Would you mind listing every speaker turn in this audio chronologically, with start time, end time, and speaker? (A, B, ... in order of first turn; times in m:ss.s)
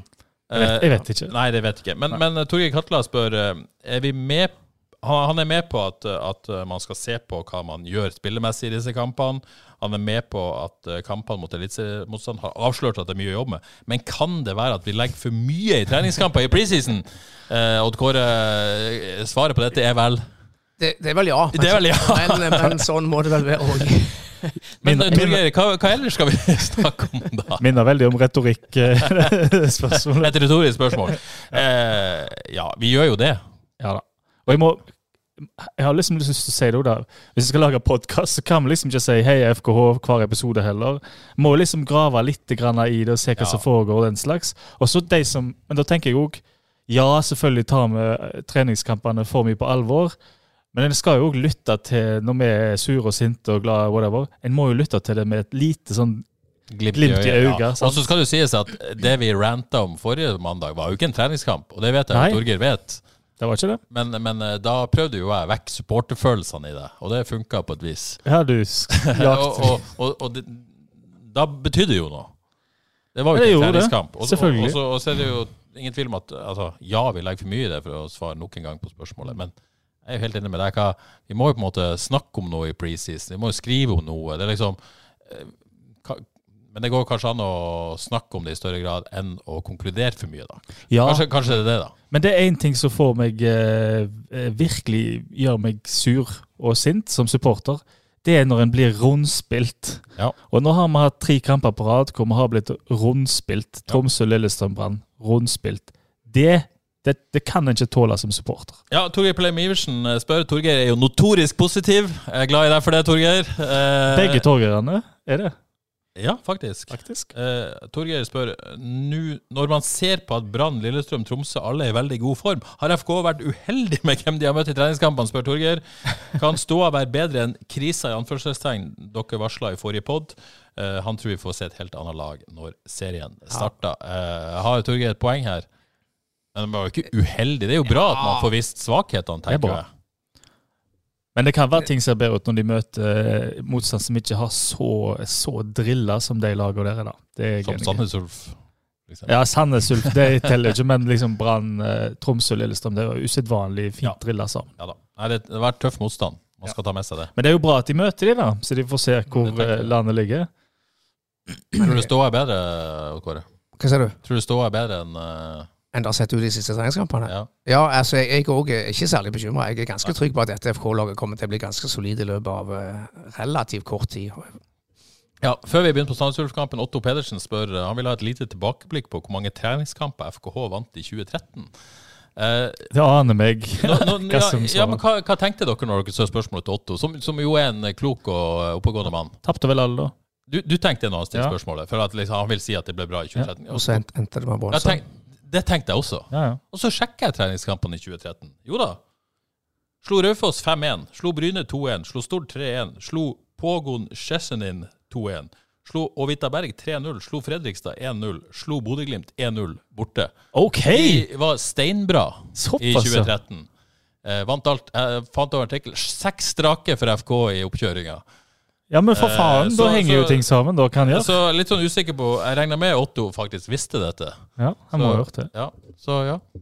0:00.5-0:20.3 A
0:00.5-0:01.3 B
0:20.8-0:24.5 C
0:21.5-0:22.8 A
0:24.8-0:27.6 A
0:24.8-0:25.4 B
0:27.6-0:30.3 B
0:29.0-0:29.3 A
0:29.9-0:33.4 A
0:33.8-0:34.8 B
0:35.4-0:50.1 B
0:43.4-0:43.6 A
0:50.7-0:56.2 B
0:56.7-1:03.0 A
0:56.9-0:58.0 B
1:02.1-1:02.4 B
1:03.4-1:03.8 B
1:03.9-1:08.2 A
1:08.2-1:09.8 B
1:08.9-1:12.3 A
1:13.1-1:19.5 A
1:13.3-1:14.8 B
1:20.0-1:31.9 A
1:30.9-1:31.2 B
1:32.1-1:48.8 B
1:48.9-1:54.4 A
1:54.1-1:55.5 B
1:56.2-2:15.7 A
1:56.9-1:57.3 B
2:16.5-2:19.9 A
2:18.0-2:18.5 C
2:19.5-2:19.8 B
2:21.3-2:28.0 B
2:27.6-2:29.4 A
2:29.3-2:34.7 B
2:29.9-2:30.7 A
2:34.8-2:37.3 A
2:37.4-2:40.5 B
2:39.4-2:39.9 A
2:41.7-2:43.4 A
2:43.8-2:44.2 C
2:44.2-2:45.7 A
2:45.9-2:54.6 C
2:55.4-3:01.7 A
3:02.4-3:02.9 A
3:02.9-3:05.0 B
3:03.8-3:09.4 A
3:09.4-3:10.1 B
3:10.5-3:14.0 A
3:13.7-3:15.0 C
3:14.7-3:19.0 A
3:16.3-3:16.6 B
3:20.0-3:30.3 A
3:30.5-3:31.2 B
3:30.9-3:33.7 A
3:32.5-3:33.3 B
3:34.2-3:38.2 A
3:38.9-3:41.3 B
3:39.1-3:40.5 A
3:41.0-3:46.4 A
3:44.6-3:45.5 B